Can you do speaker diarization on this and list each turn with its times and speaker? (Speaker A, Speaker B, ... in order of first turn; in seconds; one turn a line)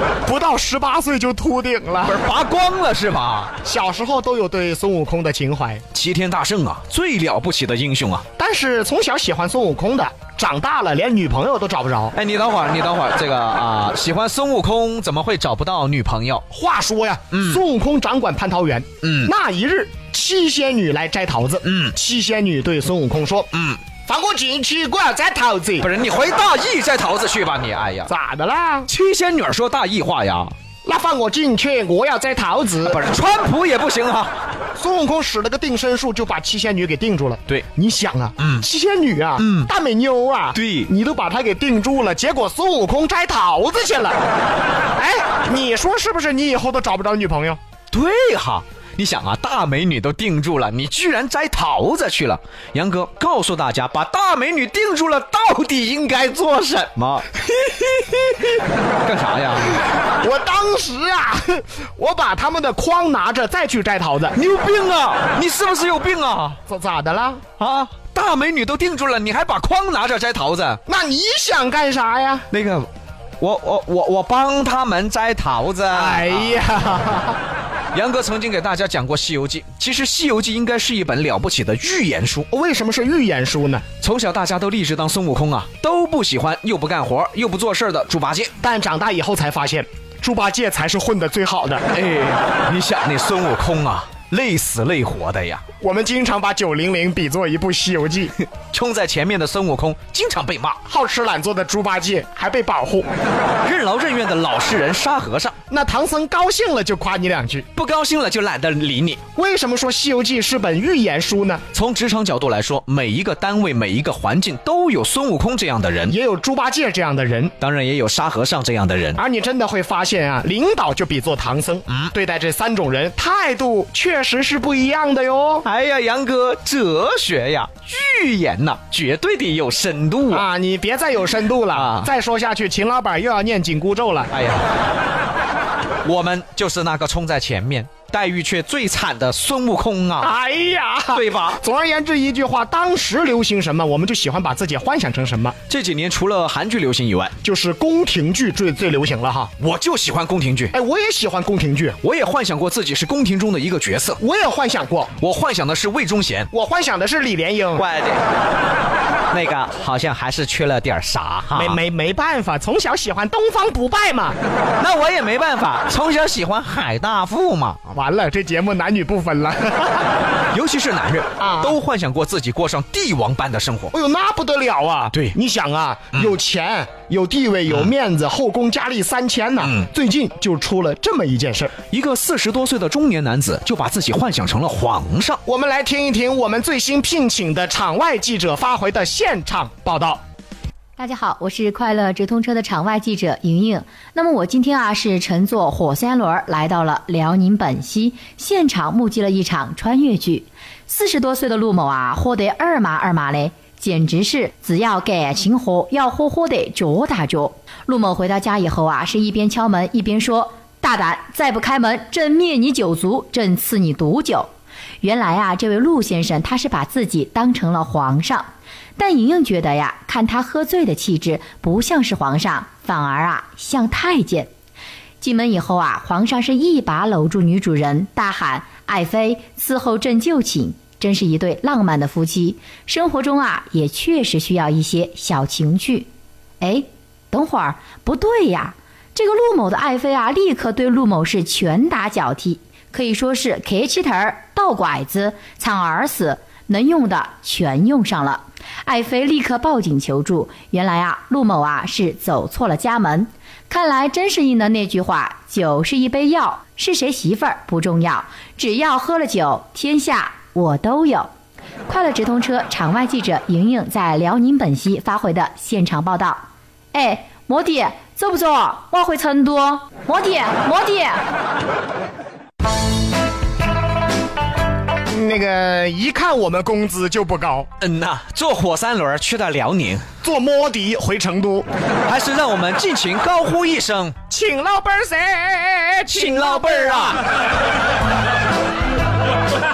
Speaker A: 0.2-2.2
Speaker B: 2.0-3.5
Speaker A: 3.6-5.8
Speaker B: 5.9-8.2
Speaker A: 8.4-12.2
Speaker B: 12.1-16.5
Speaker A: 16.5-23.5
Speaker B: 17.3-17.6
Speaker B: 19.0-19.3
Speaker B: 21.6-21.9
Speaker B: 23.5-23.8
Speaker A: 24.0-25.9
Speaker B: 25.8-28.1
Speaker A: 28.1-28.9
Speaker B: 28.9-30.5
Speaker A: 30.8-33.0
Speaker B: 32.8-34.3
Speaker A: 34.8-44.2
Speaker B: 38.4-38.7
Speaker B: 39.4-39.7
Speaker B: 40.5-40.9
Speaker A: 45.0-47.6
Speaker B: 47.9-59.9
Speaker A: 60.2-64.4
Speaker B: 64.3-66.6
Speaker A: 66.7-67.4
Speaker B: 67.6-70.8
Speaker A: 70.9-72.5
Speaker B: 72.5-72.9
Speaker B: 73.4-76.6
Speaker A: 75.9-77.4
Speaker B: 77.9-82.5
Speaker A: 82.5-83.8
Speaker B: 84.0-88.5
Speaker A: 88.6-91.8
Speaker B: 91.9-95.6
Speaker A: 95.8-98.3
Speaker B: 98.4-100.8
Speaker A: 100.9-103.1
Speaker B: 103.6-105.6
Speaker A: 105.7-107.7
Speaker B: 107.8-109.2
Speaker A: 109.4-111.6
Speaker B: 111.7-116.2
Speaker A: 116.1-117.5
Speaker B: 117.6-119.2
Speaker A: 119.2-125.7
Speaker B: 125.7-130.4
Speaker A: 130.3-134.3
Speaker B: 131.7-132.1
Speaker B: 134.3-134.7
Speaker B: 136.0-140.3
Speaker A: 140.2-145.6
Speaker B: 141.1-141.6
Speaker B: 145.7-147.3
Speaker A: 147.4-149.5
Speaker B: 149.6-150.8
Speaker A: 150.7-152.0
Speaker B: 152.0-154.2
Speaker A: 154.2-155.1
Speaker B: 155.2-156.5
Speaker A: 156.5-157.8
Speaker B: 157.8-158.2
Speaker B: 159.3-161.8
Speaker A: 161.6-164.4
Speaker B: 164.8-167.9
Speaker A: 167.9-170.1
Speaker B: 170.5-173.9
Speaker A: 171.4-171.8
Speaker A: 173.9-181.7
Speaker B: 181.9-185.4
Speaker A: 185.4-190.2
Speaker C: 191.0-214.5
Speaker C: 215.0-224.5
Speaker C: 225.2-236.1
Speaker C: 236.6-261.3
Speaker C: 261.9-271.2
Speaker A: 275.1-277.7
Speaker B: 277.8-280.1
Speaker A: 280.2-281.7
Speaker B: 282.1-284.2
Speaker A: 284.3-287.2
Speaker B: 286.1-287.3